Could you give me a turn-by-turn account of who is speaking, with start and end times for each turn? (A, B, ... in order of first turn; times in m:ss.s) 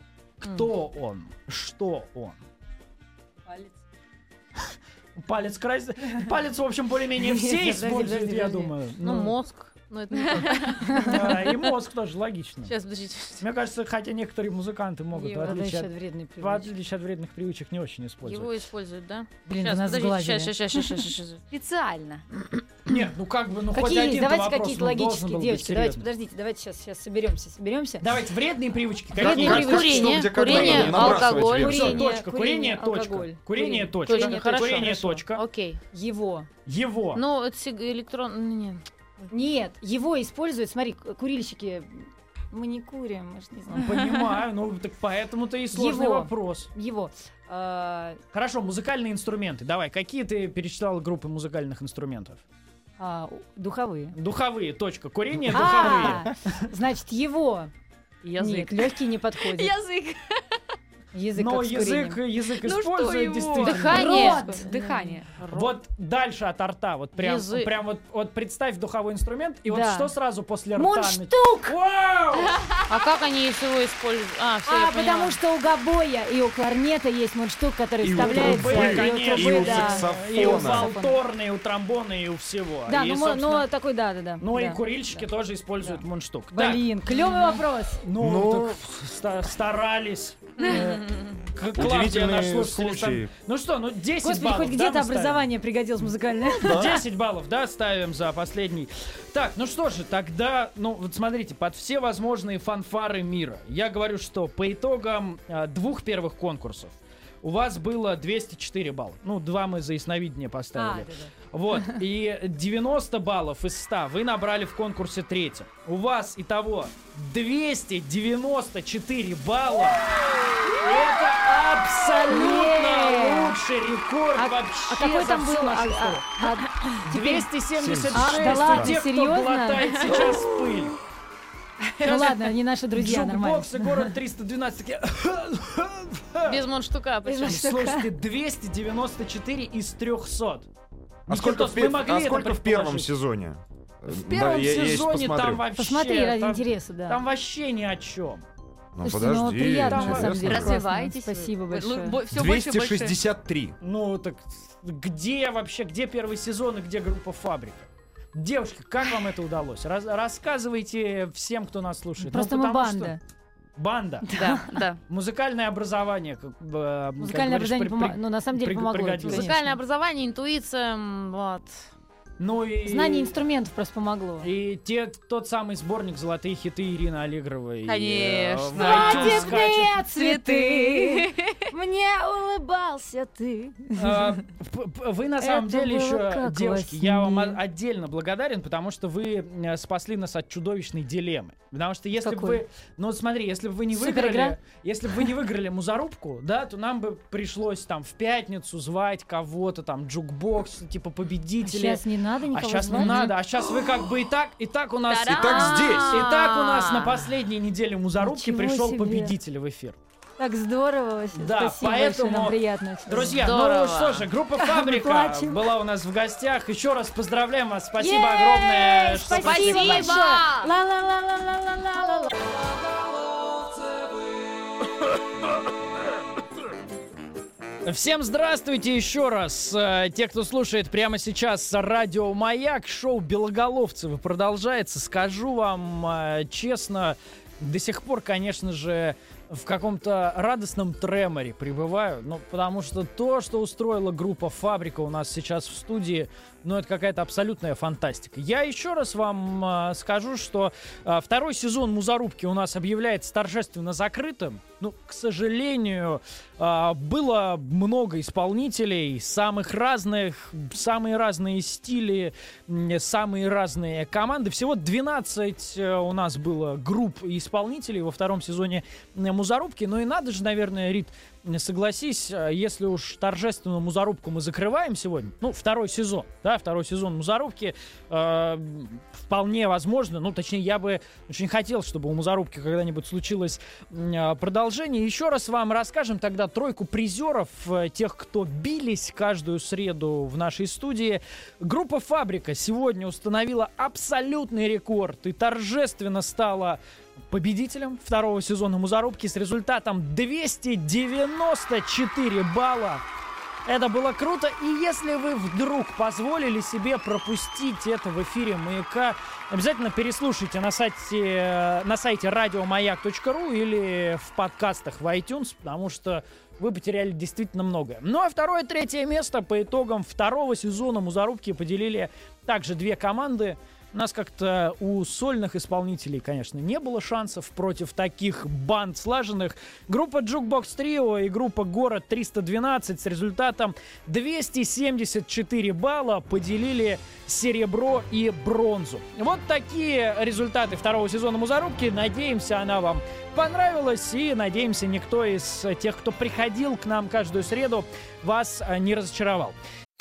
0:00.4-0:02.4 A
0:00.4-0:00.7 B
0:05.2-0:09.3 A
0:07.2-0:08.7 C
0:09.0-0:11.5 B
0:10.2-0:10.7 D
0:10.8-0:11.3 C
0:11.0-0:12.7 A
0:12.7-0:13.4 B
0:13.4-0:18.6 A
0:15.1-0:16.7 C
0:18.2-0:21.4 B
0:19.4-0:21.1 C
0:21.5-0:22.2 D
0:22.9-0:26.1 A
0:23.7-0:28.1 C
0:28.0-0:35.4 A
0:29.1-0:32.0 E
0:29.2-0:34.5 C
0:29.3-0:32.0 B
0:34.0-0:35.8 B
0:35.9-0:36.5 C
0:36.6-0:37.2 A
0:37.1-0:39.3 B
0:39.3-0:43.9 C
0:43.7-0:46.7 A
0:45.7-0:48.2 C
0:48.3-0:52.4 A
0:53.0-0:54.2 C
0:54.1-0:56.6 A
0:55.5-0:57.7 C
0:58.2-0:58.7 B
0:58.4-0:59.8 C
0:59.4-1:00.2 D
1:01.1-1:02.2 C
1:01.3-1:04.4 A
1:02.6-1:05.2 D
1:03.6-1:05.7 B
1:03.8-1:05.2 C
1:05.5-1:12.6 A
1:07.2-1:07.7 B
1:09.7-1:10.1 C
1:10.8-1:11.8 C
1:12.4-1:13.0 D
1:12.9-1:15.4 B
1:14.6-1:21.2 C
1:18.0-1:20.9 E
1:18.1-1:23.6 A
1:22.9-1:25.2 C
1:24.4-1:27.4 A
1:25.8-1:28.0 C
1:28.0-1:35.5 A
1:28.2-1:28.8 E
1:30.7-1:31.2 B
1:31.7-1:33.3 E
1:34.2-1:36.9 C
1:36.6-1:37.0 E
1:36.6-2:06.3 A
1:50.7-1:51.3 C
2:02.3-2:03.6 C
2:04.4-2:07.5 C
2:07.0-2:11.0 A
2:07.8-2:09.0 E
2:08.1-2:10.1 C
2:12.0-2:12.4 A
2:12.0-2:14.1 C
2:12.9-2:16.6 A
2:16.4-2:17.6 B
2:17.2-2:18.1 C
2:17.4-2:20.7 A
2:21.3-2:23.1 A
2:21.3-2:25.6 E
2:24.1-2:28.4 A
2:25.7-2:27.2 C
2:28.9-2:30.8 E
2:29.0-2:32.2 C
2:29.9-2:30.5 A
2:30.4-2:33.2 D
2:32.3-2:33.8 E
2:33.8-2:43.2 A
2:42.2-2:43.2 C
2:43.8-2:44.4 A
2:44.3-2:44.7 C
2:44.3-2:45.0 D
2:45.1-2:49.6 A
2:47.2-2:49.8 C
2:49.2-2:51.9 B
2:52.4-2:53.4 A
2:52.8-2:54.5 C
2:54.4-3:00.0 A
2:57.8-3:01.6 D
2:58.7-3:04.4 C
3:04.0-3:30.0 A
3:05.4-3:07.6 C
3:12.2-3:12.6 C
3:13.9-3:14.6 C
3:21.6-3:23.3 C
3:22.9-3:23.3 B
3:25.1-3:25.9 D
3:25.2-3:26.3 E
3:25.4-3:27.3 B
3:28.2-3:29.3 C
3:30.4-3:33.5 C
3:31.3-3:40.2 A
3:33.2-3:34.3 B
3:34.6-3:35.6 C
3:38.0-3:42.3 C
3:39.3-3:40.7 B
3:47.8-4:56.8 A
4:57.3-5:03.0 A
5:03.6-5:49.6 A